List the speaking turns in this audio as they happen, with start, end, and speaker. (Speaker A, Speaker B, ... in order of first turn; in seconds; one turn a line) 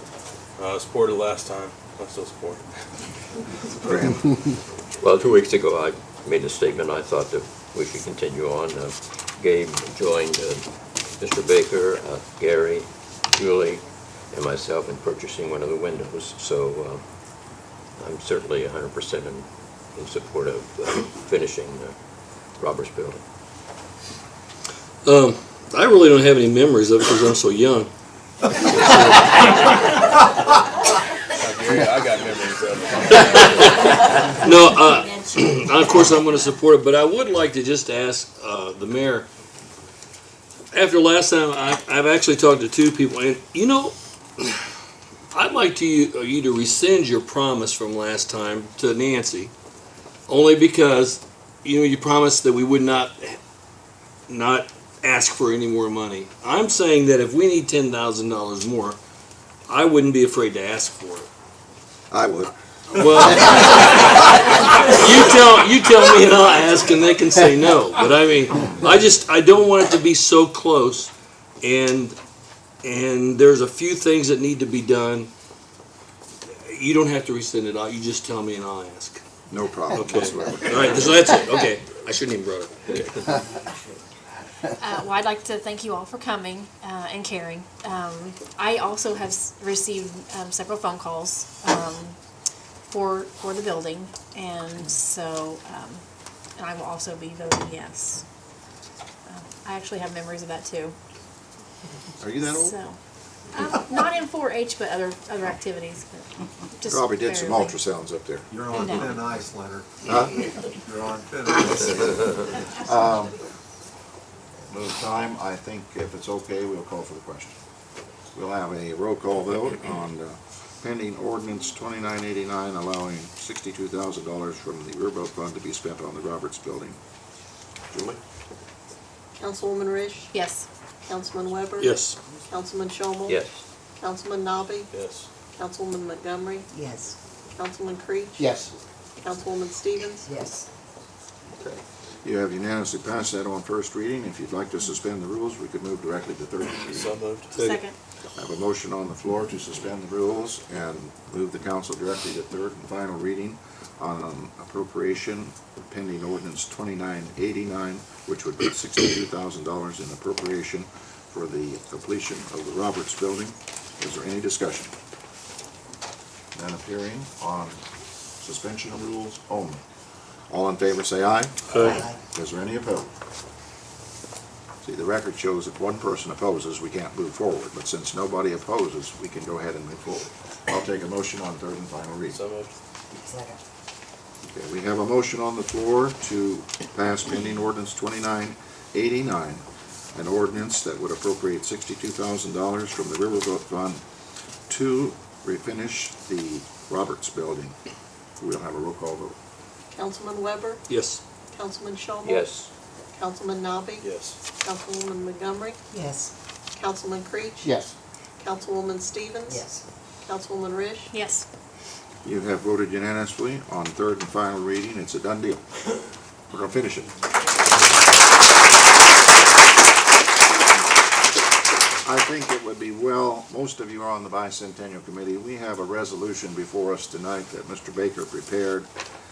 Speaker A: 0.6-2.6
Speaker B: 3.8-4.3
Speaker C: 5.0-10.7
Speaker C: 11.2-17.0
Speaker C: 18.0-21.9
Speaker C: 22.6-23.2
Speaker D: 25.0-27.9
Speaker D: 28.5-29.9
Speaker A: 31.4-34.2
Speaker D: 33.2-39.3
Speaker D: 40.7-44.6
Speaker D: 45.3-49.5
Speaker D: 50.3-53.4
Speaker D: 54.3-59.0
Speaker D: 59.7-61.3
Speaker B: 62.1-62.5
Speaker D: 62.9-71.1
Speaker B: 63.2-63.5
Speaker D: 71.6-72.2
Speaker D: 72.8-75.3
Speaker D: 76.7-79.2
Speaker B: 79.5-81.1
Speaker D: 79.9-83.0
Speaker E: 84.8-92.2
Speaker E: 92.9-96.0
Speaker E: 96.6-98.2
Speaker E: 99.3-100.9
Speaker B: 102.2-102.8
Speaker E: 102.3-103.0
Speaker E: 103.5-106.2
Speaker E: 106.8-107.8
Speaker B: 106.8-108.5
Speaker F: 108.5-110.0
Speaker E: 108.8-109.3
Speaker B: 110.0-110.5
Speaker F: 110.8-112.4
Speaker B: 111.6-113.3
Speaker B: 114.7-117.6
Speaker B: 118.3-127.0
Speaker G: 129.4-130.3
Speaker E: 130.3-130.7
Speaker G: 131.0-133.4
Speaker D: 131.8-132.2
Speaker C: 133.3-133.6
Speaker G: 134.0-134.9
Speaker A: 134.9-135.3
Speaker G: 135.5-136.7
Speaker H: 136.7-137.2
Speaker G: 137.5-138.5
Speaker H: 138.4-138.7
Speaker G: 139.2-140.3
Speaker H: 140.2-140.7
Speaker B: 141.7-147.2
Speaker A: 146.8-147.5
Speaker D: 147.5-147.8
Speaker E: 147.6-147.9
Speaker B: 148.3-164.9
Speaker B: 166.5-167.8
Speaker B: 168.4-169.8
Speaker B: 170.5-173.1
Speaker D: 171.7-172.0
Speaker H: 171.8-172.2
Speaker B: 174.8-182.4
Speaker A: 182.3-182.7
Speaker H: 183.1-183.6
Speaker B: 184.4-194.0
Speaker B: 194.7-197.7
Speaker B: 198.4-199.3
Speaker G: 199.9-200.8
Speaker D: 200.9-201.2
Speaker G: 201.5-202.5
Speaker C: 202.2-202.7
Speaker G: 203.1-205.8
Speaker A: 204.0-204.4
Speaker H: 205.9-206.3
Speaker G: 206.7-207.7
Speaker H: 207.6-207.9
Speaker G: 208.4-209.6
Speaker H: 209.5-209.8
Speaker G: 210.2-211.1
Speaker E: 211.1-211.4
Speaker B: 212.2-215.6
Speaker B: 216.5-217.1
Speaker B: 222.0-228.9